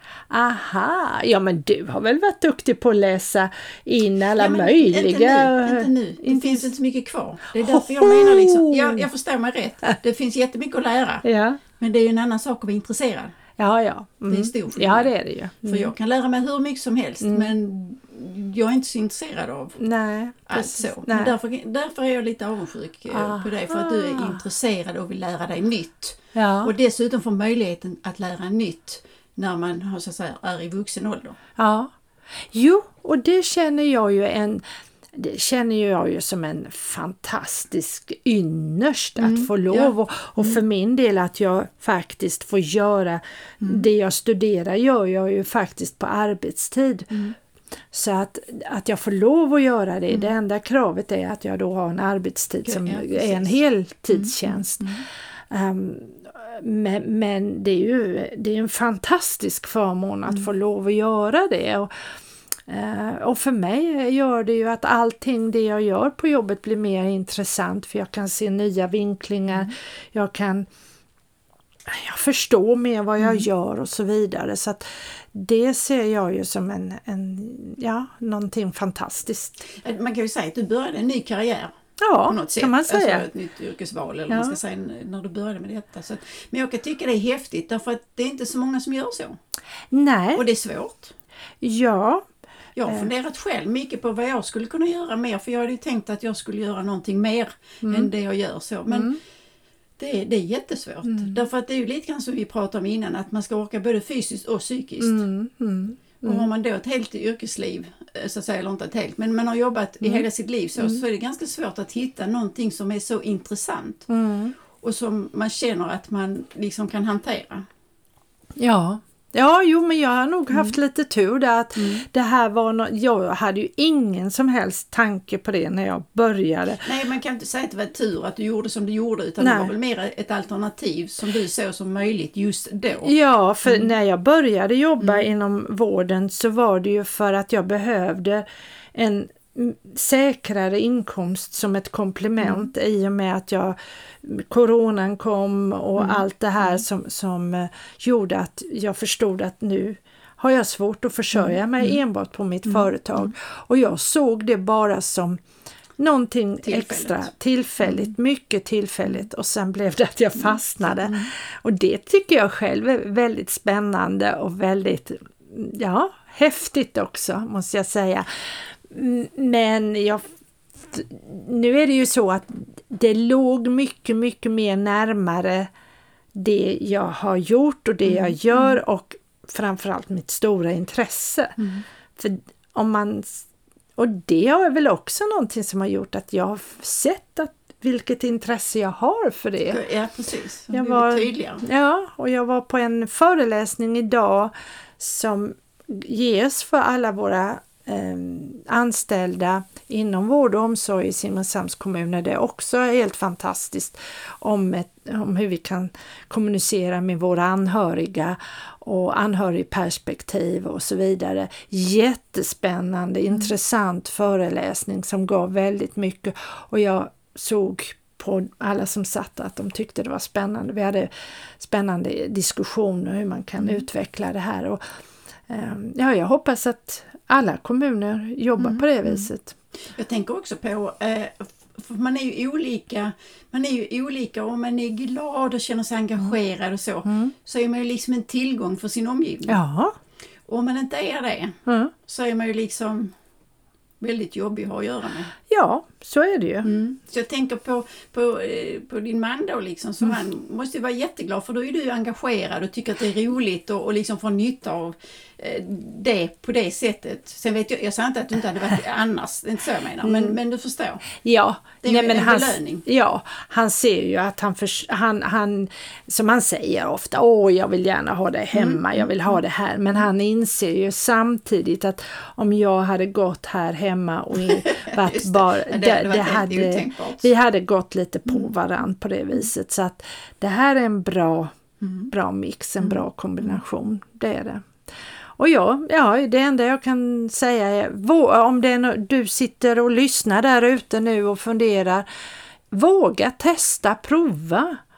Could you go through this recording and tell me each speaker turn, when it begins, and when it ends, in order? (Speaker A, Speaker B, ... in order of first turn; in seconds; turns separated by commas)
Speaker A: 0.3-6.7, Speaker B: 4.3-11.2, Speaker A: 7.6-9.1, Speaker A: 11.2-11.6, Speaker B: 11.8-13.3, Speaker A: 13.6-15.9, Speaker B: 14.3-15.1, Speaker B: 15.6-19.8, Speaker A: 17.2-17.5, Speaker A: 19.8-21.3, Speaker B: 20.5-31.4, Speaker A: 23.1-24.4, Speaker A: 26.3-26.7, Speaker A: 31.6-31.9, Speaker A: 32.5-34.6, Speaker A: 35.1-47.1, Speaker B: 39.2-40.6, Speaker B: 43.6-43.9, Speaker A: 47.9-54.9, Speaker B: 52.6-53.6, Speaker B: 54.1-55.0, Speaker A: 55.5-61.9, Speaker A: 62.7-70.7, Speaker A: 71.9-79.6, Speaker B: 73.2-73.5, Speaker B: 79.6-81.7, Speaker A: 82.0-83.2, Speaker B: 82.2-89.4, Speaker A: 84.3-84.6, Speaker A: 89.9-90.4, Speaker B: 90.3-91.1, Speaker A: 91.6-92.2, Speaker B: 92.8-99.1, Speaker A: 97.8-98.1, Speaker A: 98.9-99.2, Speaker B: 100.0-105.2, Speaker A: 101.0-101.5, Speaker A: 105.0-106.5, Speaker B: 106.2-114.1, Speaker A: 110.0-110.3, Speaker A: 114.1-114.5, Speaker B: 114.8-117.6, Speaker A: 118.6-126.8, Speaker B: 120.5-120.8, Speaker B: 121.8-122.0, Speaker B: 126.8-133.1, Speaker A: 129.4-129.7, Speaker A: 133.0-155.4, Speaker B: 133.6-133.9, Speaker B: 142.4-142.7, Speaker B: 145.9-146.8, Speaker B: 151.3-152.0, Speaker B: 152.7-153.3, Speaker A: 156.0-170.2, Speaker B: 156.6-157.3, Speaker B: 157.8-158.1, Speaker A: 170.8-175.7, Speaker A: 176.3-181.6, Speaker B: 178.0-178.8, Speaker B: 181.6-181.8, Speaker A: 182.2-189.8, Speaker B: 189.7-191.6, Speaker A: 190.7-224.8, Speaker B: 223.6-223.8, Speaker A: 225.5-229.5, Speaker B: 228.6-229.3, Speaker B: 229.9-239.6, Speaker A: 237.0-237.3, Speaker A: 239.5-239.9, Speaker B: 240.5-243.1, Speaker A: 241.7-241.9, Speaker B: 244.0-245.3, Speaker A: 245.5-246.7, Speaker B: 246.6-261.1, Speaker A: 260.0-260.3, Speaker A: 261.2-281.5, Speaker B: 261.8-262.8, Speaker B: 268.5-269.4, Speaker B: 274.4-277.3, Speaker B: 281.8-282.1, Speaker A: 282.1-284.7, Speaker B: 282.8-283.6, Speaker A: 285.4-292.1, Speaker A: 292.7-294.8